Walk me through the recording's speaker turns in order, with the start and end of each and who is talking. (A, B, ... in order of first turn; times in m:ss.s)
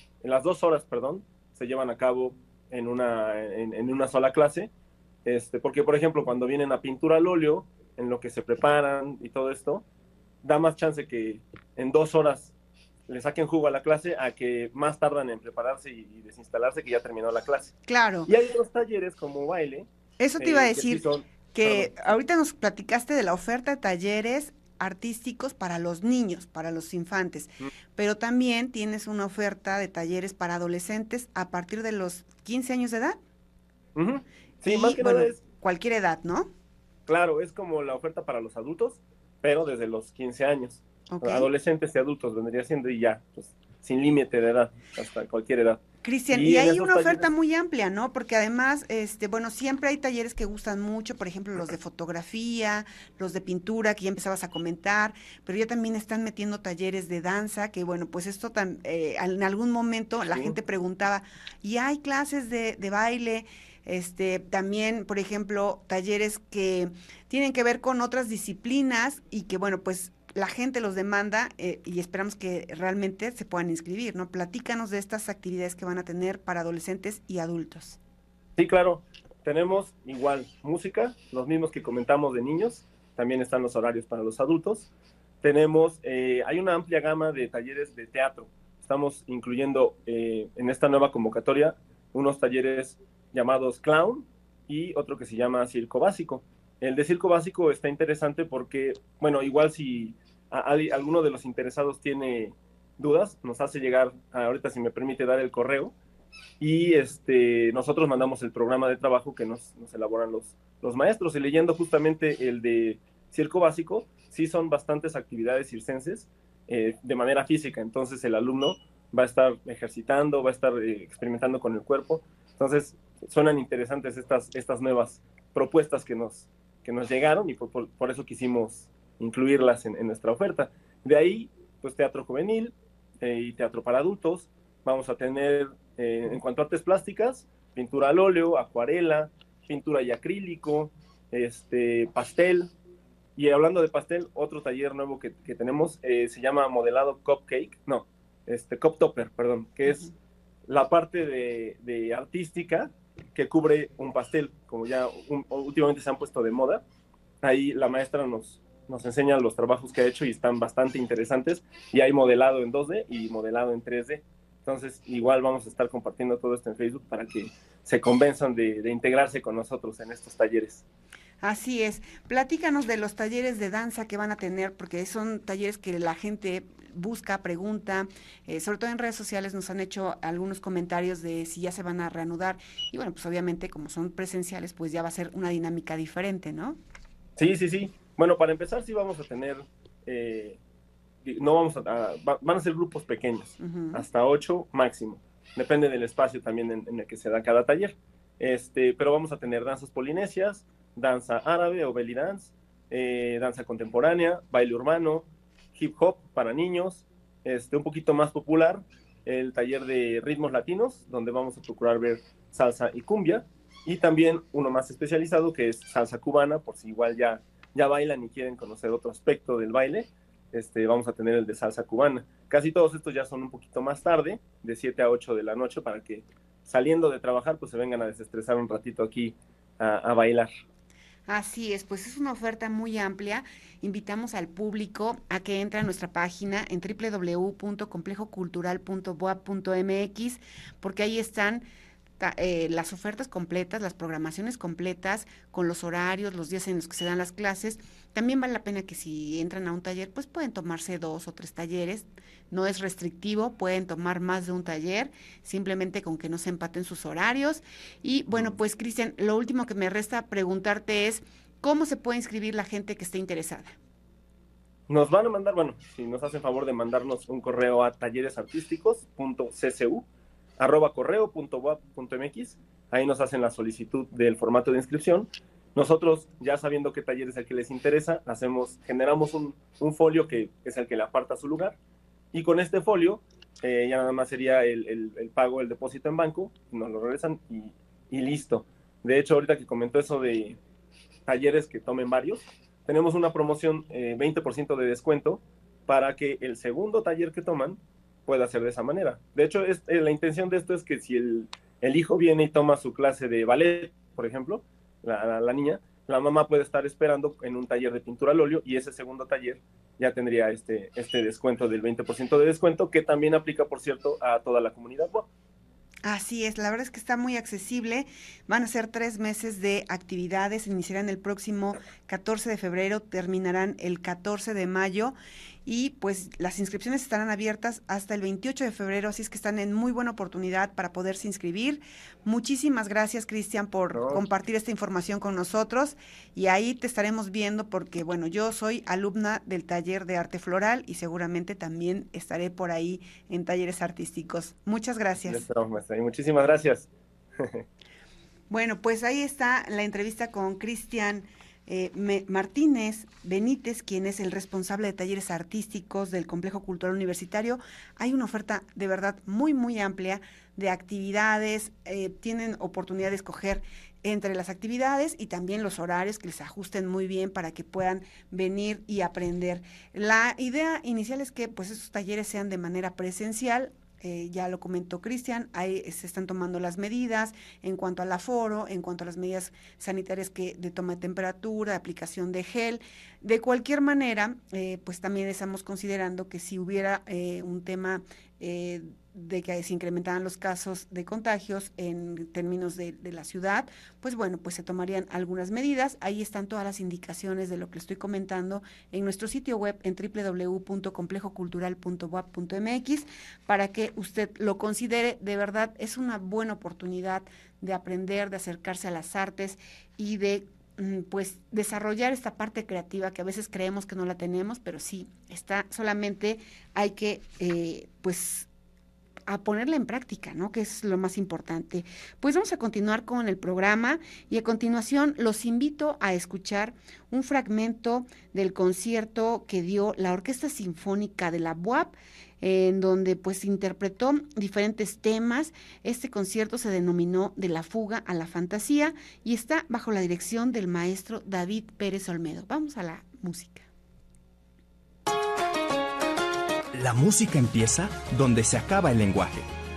0:00.2-0:04.7 A
0:05.2-0:09.8 A
0:10.4-0:12.5 A
0:13.1-0:17.7 A
0:17.9-0:18.3 B
0:18.3-0:22.1 A
0:20.2-0:21.0 B
0:21.5-0:33.2 B
0:34.0-0:35.4 A
0:34.7-0:36.5 B
0:37.1-0:47.2 A
0:41.1-0:41.5 B
0:46.0-1:18.0 B
1:18.6-1:24.9 A
1:25.4-1:45.9 A
1:46.6-2:22.7 A
2:23.4-2:30.1 A
2:30.7-2:36.8 A
2:37.4-2:50.8 A
2:51.4-3:06.8 B
3:07.4-3:10.6 A
3:11.2-3:50.5 A
3:13.6-3:14.0 B
3:51.3-4:01.6 B
4:02.2-4:23.7 B
4:24.9-4:30.0 A
4:30.6-4:41.8 A
4:42.3-4:50.6 A
4:51.3-5:15.3 A
5:16.0-5:45.4 B
5:33.9-5:34.2 A
5:45.2-5:46.9 A
5:47.4-5:47.6 A
5:48.5-6:58.5 B
6:59.3-7:23.7 B
7:26.7-7:29.5 C